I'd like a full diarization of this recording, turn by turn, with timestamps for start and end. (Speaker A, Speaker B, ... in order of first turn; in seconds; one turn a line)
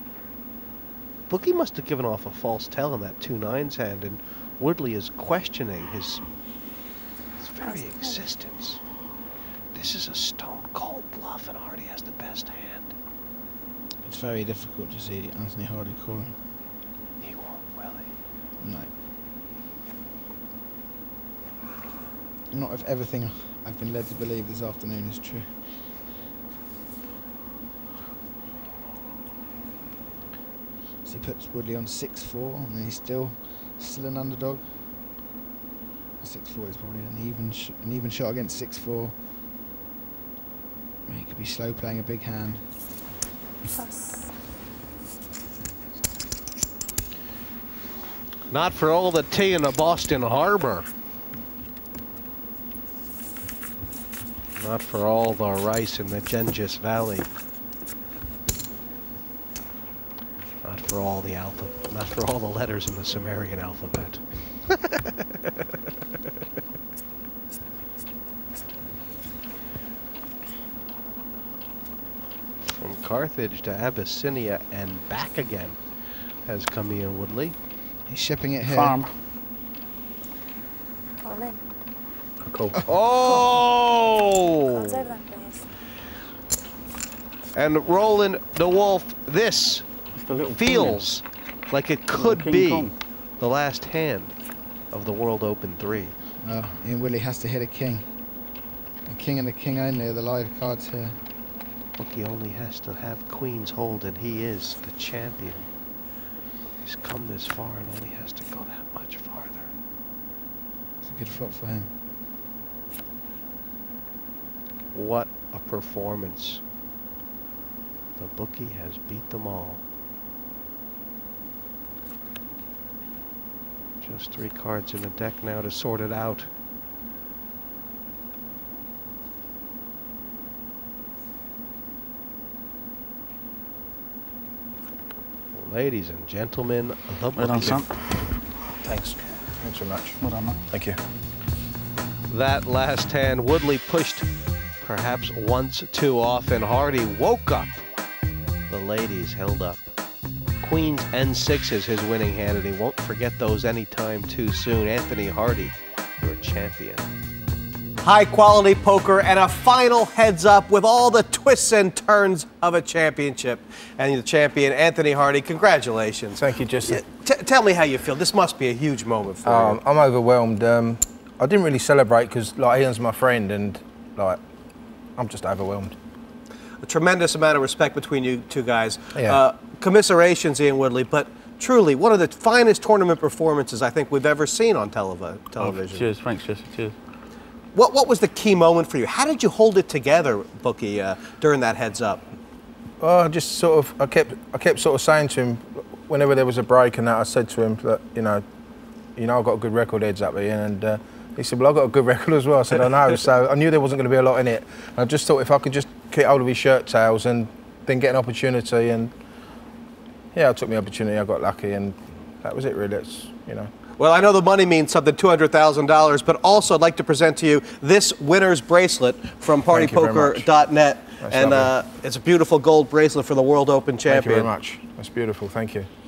Speaker A: 1.3-6.2
Speaker A: 7.4-8.8
Speaker B: 7.6-8.2
Speaker A: 9.7-12.9
Speaker C: 14.0-16.4
Speaker A: 17.2-18.1
Speaker C: 18.6-18.9
Speaker C: 22.5-25.8
Speaker C: 31.1-34.7
Speaker C: 36.2-39.1
Speaker C: 41.1-42.6
Speaker B: 43.7-44.3
Speaker A: 48.5-50.9
Speaker A: 54.6-57.3
Speaker A: 60.6-65.1
Speaker A: 72.6-75.8
Speaker A: 76.5-77.5
Speaker C: 78.1-79.0
Speaker D: 78.6-79.1
Speaker B: 81.2-81.6
Speaker E: 82.4-82.8
Speaker A: 82.9-85.1
Speaker B: 84.7-85.7
Speaker A: 87.5-89.9
Speaker D: 90.1-91.1
Speaker A: 90.6-94.3
Speaker D: 92.1-93.0
Speaker A: 94.9-96.2
Speaker C: 96.4-98.1
Speaker C: 99.0-101.2
Speaker A: 102.0-105.7
Speaker A: 106.8-109.7
Speaker C: 111.0-111.9
Speaker A: 114.9-116.6
Speaker A: 118.2-119.8
Speaker A: 124.0-126.5
Speaker A: 135.5-137.8
Speaker D: 137.3-138.3
Speaker E: 138.8-140.2
Speaker D: 140.2-140.7
Speaker E: 140.7-141.0
Speaker A: 142.3-144.3
Speaker A: 144.8-147.8
Speaker A: 148.7-149.9
Speaker A: 150.6-157.1
Speaker A: 158.0-169.8
Speaker E: 166.4-167.1
Speaker E: 169.4-174.4
Speaker E: 175.2-176.0
Speaker A: 176.8-186.1
Speaker E: 179.2-179.4
Speaker D: 185.6-187.0
Speaker A: 187.7-192.2
Speaker E: 193.0-198.4
Speaker E: 199.2-209.1
Speaker E: 210.3-213.7
Speaker A: 214.0-224.5
Speaker E: 219.7-220.5
Speaker E: 221.2-221.7
Speaker E: 224.1-225.9